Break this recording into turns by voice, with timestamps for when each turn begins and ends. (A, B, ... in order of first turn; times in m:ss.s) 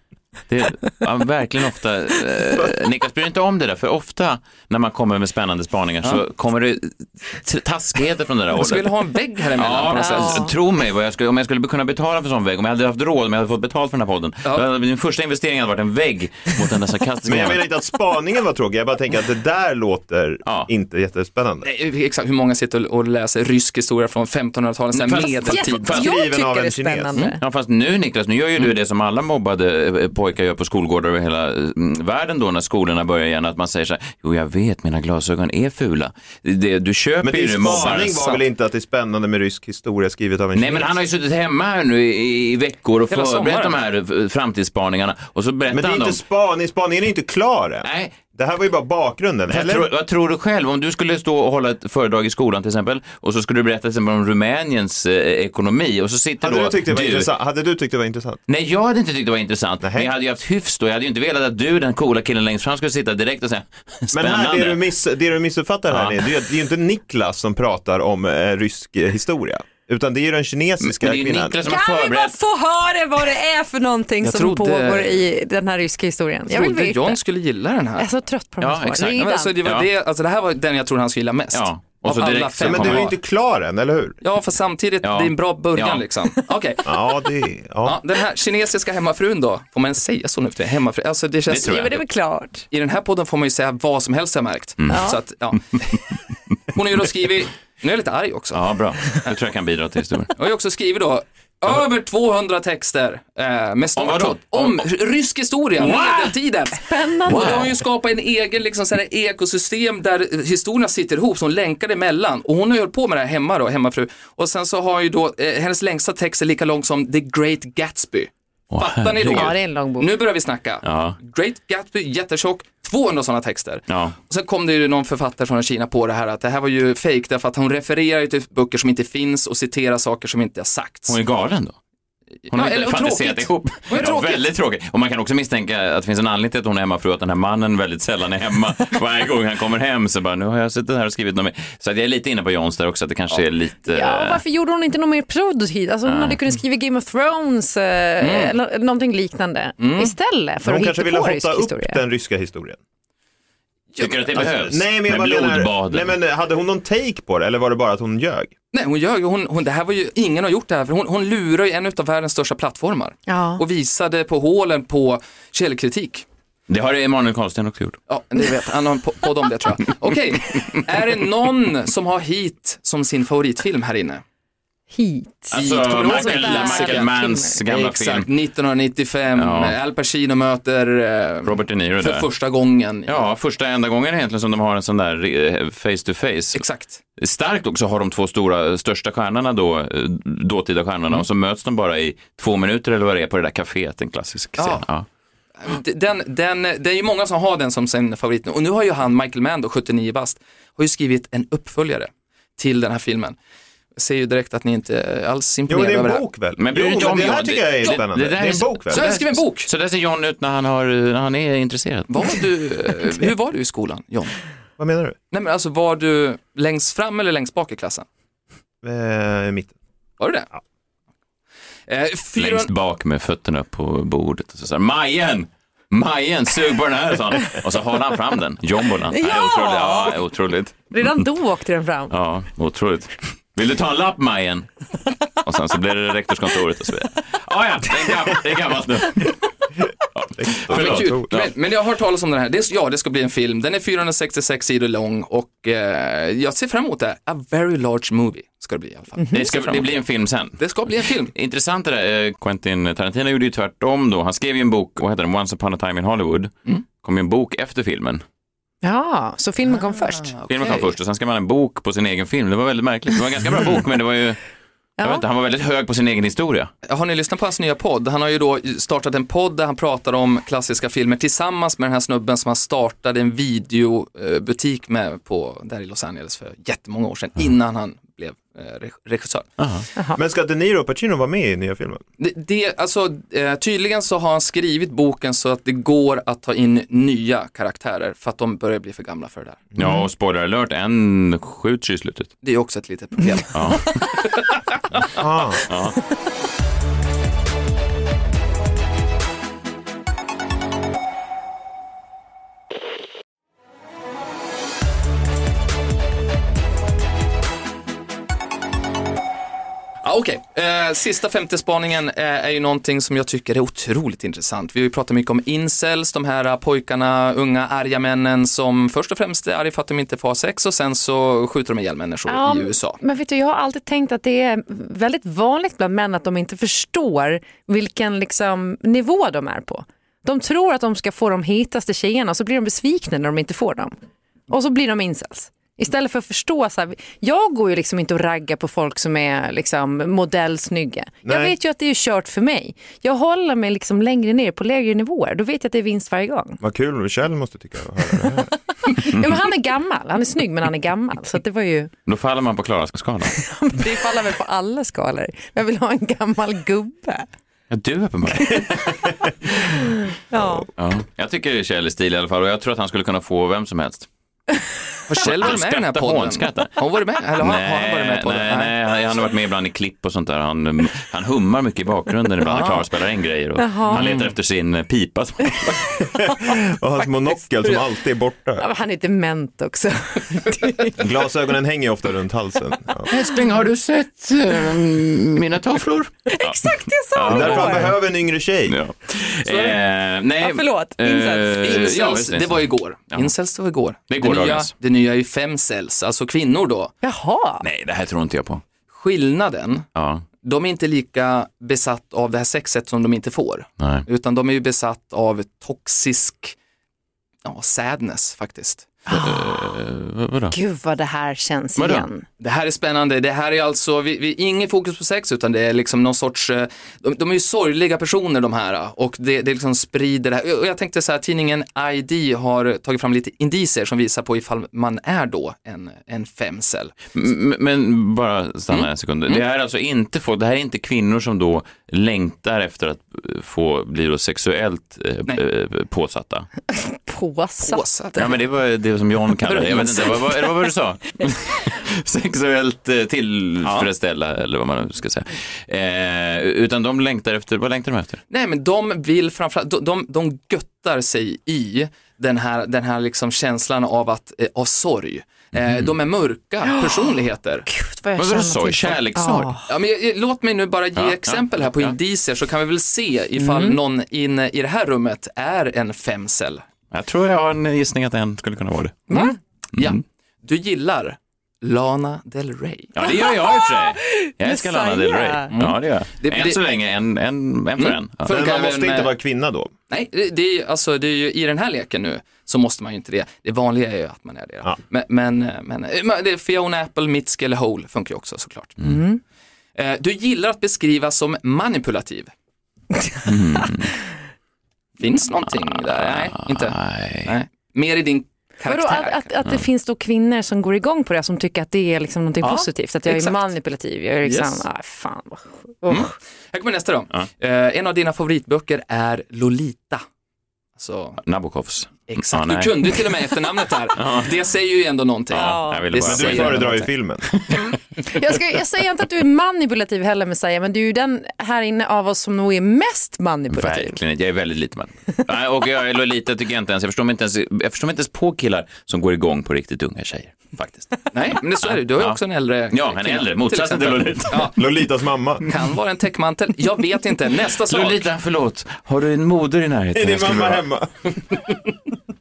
0:00.5-0:08.9 A
0:08.6-0:10.5 B
0:09.5-0:17.6 A
0:09.9-0:10.4 C
0:17.2-0:21.7 D
0:21.6-0:26.0 B
0:24.9-0:26.1 A
0:25.4-0:27.4 C
0:25.9-0:27.2 D
0:27.1-0:38.4 A
0:37.2-0:41.0 D
0:40.5-0:46.2 A
0:43.1-0:43.8 B
0:45.7-0:49.9 D
0:47.8-0:48.2 A
0:49.5-0:57.3 A
0:56.4-0:58.4 D
0:58.5-1:04.8 A
0:59.8-1:00.1 D
1:04.1-1:11.6 D
1:05.9-1:06.2 A
1:10.8-1:12.3 A
1:11.6-1:17.2 C
1:14.2-1:15.2 B
1:16.4-1:18.1 B
1:18.0-1:19.6 C
1:18.6-1:19.8 A
1:19.1-1:23.1 B
1:21.5-1:23.1 A
1:22.6-1:24.2 D
1:24.2-1:26.8 B
1:25.0-1:26.1 A
1:26.8-1:28.0 D
1:27.8-1:31.8 B
1:31.5-1:32.0 A
1:31.6-1:32.6 C
1:32.7-1:36.1 B
1:34.9-1:35.2 C
1:36.7-1:39.4 B
1:38.5-1:40.3 A
1:40.3-2:11.2 B
1:44.0-1:44.8 A
1:46.0-1:47.6 C
1:47.2-1:47.8 A
1:58.7-1:59.5 A
1:59.2-2:00.2 C
2:00.8-2:01.2 A
2:03.9-2:04.1 A
2:11.1-2:11.8 A
2:12.5-2:14.5 B
2:12.5-2:24.4 A
2:23.9-2:32.0 C
2:26.0-2:26.4 A
2:28.2-2:28.6 B
2:29.8-2:30.1 B
2:30.6-2:32.8 D
2:33.9-2:34.6 B
2:34.0-2:36.1 A
2:34.3-2:38.5 D
2:38.7-2:46.2 B
2:43.3-2:43.6 C
2:46.7-2:48.0 A
2:48.1-2:54.2 B
2:54.9-2:57.6 C
2:55.5-3:03.3 B
2:55.5-2:58.3 A
2:59.3-2:59.8 A
3:01.4-3:02.2 A
3:03.0-3:06.6 A
3:06.5-3:07.0 B
3:07.2-3:15.0 A
3:14.6-3:14.9 B
3:15.6-3:23.4 B
3:24.0-3:26.2 B
3:25.7-3:29.0 D
3:26.6-3:32.3 A
3:28.9-3:29.7 B
3:32.1-3:34.4 B
3:34.8-3:35.2 D
3:35.3-3:38.1 B
3:38.8-3:39.7 D
3:40.2-3:40.5 B
3:41.9-3:42.7 B
3:42.4-3:51.3 A
3:49.1-3:50.2 C
3:50.9-3:52.2 C
3:52.1-4:01.5 A
4:00.4-4:01.3 D
4:00.7-4:11.3 B
4:09.3-4:18.2 A
4:18.8-4:20.3 C
4:19.6-4:20.9 B
4:20.5-4:24.4 A
4:25.0-4:25.2 C
4:25.0-4:26.7 A
4:26.8-4:39.5 B
4:39.6-4:39.8 A
4:40.1-4:42.0 D
4:42.2-4:49.7 B
4:49.8-4:52.3 A
4:52.4-4:55.2 B
4:53.5-4:54.0 A
4:55.1-4:55.6 D
4:55.7-4:56.0 A
5:10.0-5:23.0 B
5:22.3-5:33.9 C
5:34.5-5:46.6 C
5:41.2-5:41.6 D
5:46.6-5:48.5 D
5:48.8-5:51.9 C
5:52.1-5:53.3 A
5:53.3-5:57.3 C
5:57.7-5:59.0 A
5:58.3-6:00.7 C
6:00.8-6:04.1 A
6:05.1-6:08.9 B
6:05.2-6:06.8 A
6:07.3-6:15.9 A
6:12.4-6:12.8 B
6:13.6-6:14.1 C
6:13.9-6:14.3 B
6:16.0-6:18.6 D
6:18.6-6:21.1 C
6:21.0-6:23.1 D
6:23.1-6:27.9 A
6:26.3-6:27.9 C
6:27.2-6:28.8 D
6:28.7-6:33.3 A
6:29.4-6:29.8 B
6:30.4-6:31.6 C
6:31.6-6:36.9 B
6:34.1-6:34.7 A
6:37.0-6:37.6 C
6:37.6-6:38.6 A
6:38.9-6:39.9 B
6:39.9-6:40.2 A
6:40.4-6:46.6 B
6:43.8-6:44.0 A
6:47.4-6:48.9 B
6:49.1-6:50.5 A
6:50.5-6:52.2 C
6:51.8-6:52.1 A
6:52.4-7:07.1 B
7:07.1-7:16.5 A
7:08.7-7:09.4 B
7:16.7-7:18.2 C
7:17.6-7:18.4 B
7:18.2-7:28.2 A
7:19.4-7:20.5 B
7:23.6-7:23.9 B
7:28.3-7:37.7 B
7:36.6-7:37.1 C
7:37.7-7:39.7 C
7:38.2-7:39.6 A
7:39.7-7:46.6 B
7:41.0-7:42.0 A
7:43.4-7:43.8 C
7:46.9-7:49.2 A
7:49.1-7:49.4 C
7:49.2-7:53.0 B
7:52.9-7:58.4 A
7:53.0-7:55.5 C
7:55.5-7:56.8 B
7:57.8-7:59.2 B
7:58.2-7:59.7 D
7:59.9-8:08.8 B
8:08.8-8:09.2 C
8:09.7-8:12.3 B
8:13.2-8:14.0 A
8:15.0-8:19.4 B
8:15.7-8:17.3 A
8:18.6-8:26.1 C
8:22.4-8:23.5 B
8:24.2-8:24.7 B
8:25.8-8:30.0 B
8:30.8-8:31.2 B
8:31.2-8:33.3 A
8:32.1-8:36.8 B
8:33.9-8:34.3 A
8:35.3-8:37.8 A
8:35.3-8:36.1 C
8:36.0-8:37.3 D
8:38.0-8:44.0 C
8:43.5-8:50.5 A
8:50.5-8:54.6 B
8:51.6-8:52.2 A
8:52.7-8:54.6 A
8:54.4-8:55.4 D
8:55.4-8:58.1 B
8:57.6-9:00.6 A
8:59.9-9:01.1 D